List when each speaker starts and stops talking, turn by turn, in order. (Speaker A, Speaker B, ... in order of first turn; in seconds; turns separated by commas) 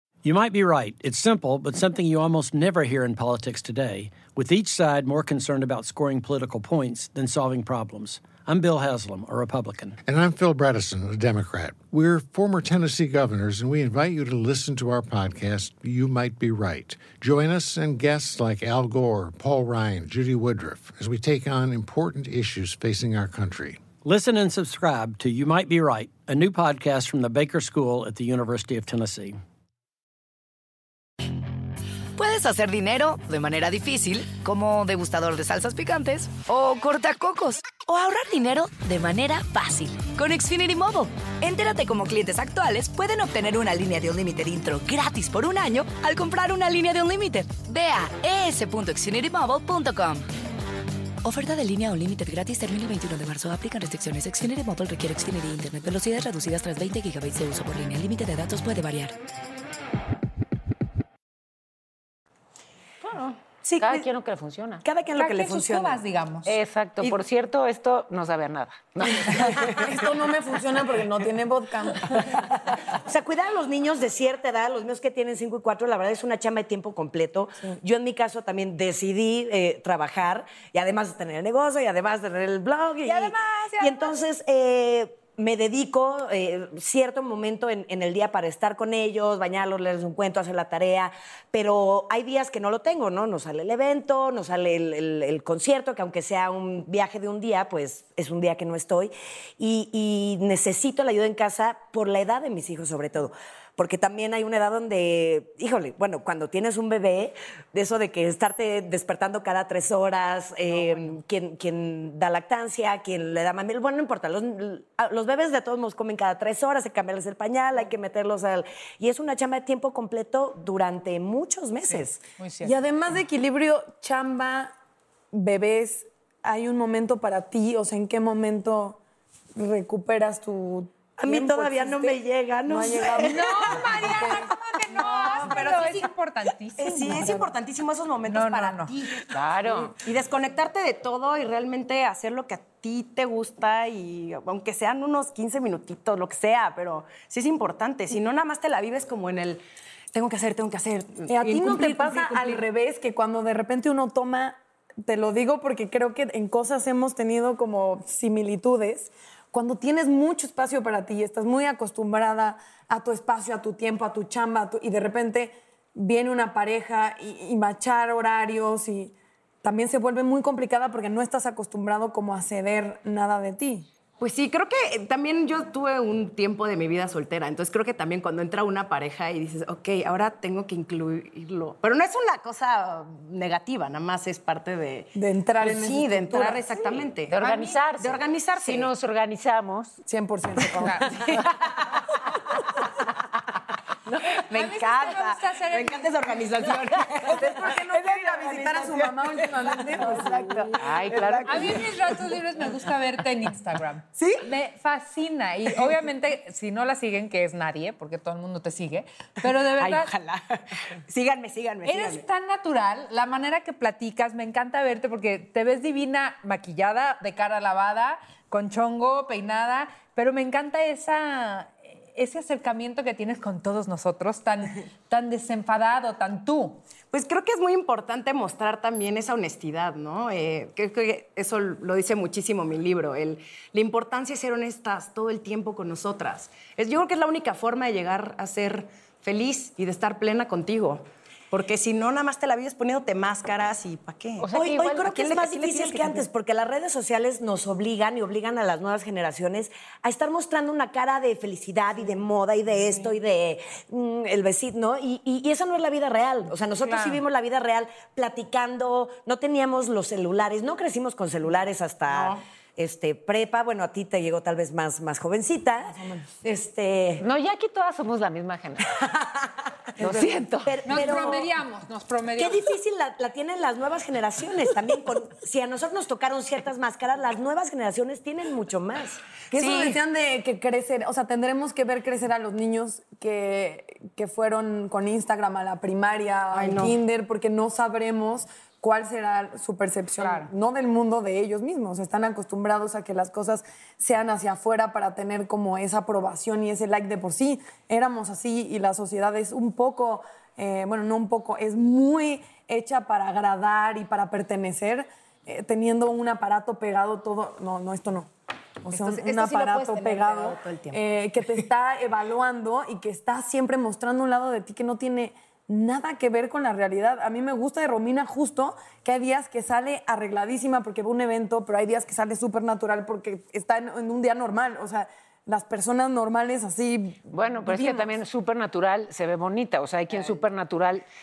Speaker A: 0.2-10.0, Speaker B: 10.1-23.8, Speaker A: 24.0-29.4, Speaker C: 32.2-50.2, Speaker C: 51.2-59.1, Speaker D: 63.8-64.8, Speaker E: 64.9-66.0, Speaker F: 65.1-66.5, Speaker D: 66.5-69.6, Speaker G: 69.7-72.3, Speaker E: 73.0-122.3, Speaker F: 83.0-84.2, Speaker F: 121.8-122.7, Speaker G: 122.6-124.7, Speaker G: 125.3-129.0, Speaker G: 129.6-134.5, Speaker E: 131.2-134.2, Speaker F: 133.2-137.5, Speaker G: 135.2-135.7, Speaker H: 135.4-135.9, Speaker H: 136.8-149.6, Speaker F: 138.3-138.9, Speaker D: 139.3-139.9, Speaker H: 150.1-152.7, Speaker G: 151.3-173.9, Speaker H: 174.2-187.4, Speaker G: 185.2-186.6, Speaker D: 187.3-190.0, Speaker F: 187.4-187.8, Speaker H: 188.0-188.9, Speaker G: 190.1-191.2, Speaker F: 190.8-191.3, Speaker H: 194.1-200.6, Speaker F: 194.5-196.7, Speaker G: 197.3-201.3, Speaker D: 200.8-201.9, Speaker E: 201.0-202.1, Speaker F: 201.4-210.1, Speaker H: 209.8-212.2, Speaker F: 211.8-226.8, Speaker H: 227.1-244.5, Speaker D: 244.4-246.2, Speaker E: 244.5-267.2, Speaker F: 256.8-257.2, Speaker G: 265.9-266.3, Speaker D: 267.2-268.9, Speaker E: 269.2-269.4, Speaker D: 270.0-271.1, Speaker E: 270.6-271.5, Speaker F: 270.9-272.8, Speaker E: 272.4-279.2, Speaker G: 279.5-308.3, Speaker H: 279.5-280.0, Speaker H: 286.5-287.0, Speaker F: 290.2-290.5, Speaker G: 308.8-328.1, Speaker F: 308.9-310.5, Speaker H: 310.5-311.0, Speaker D: 327.3-331.0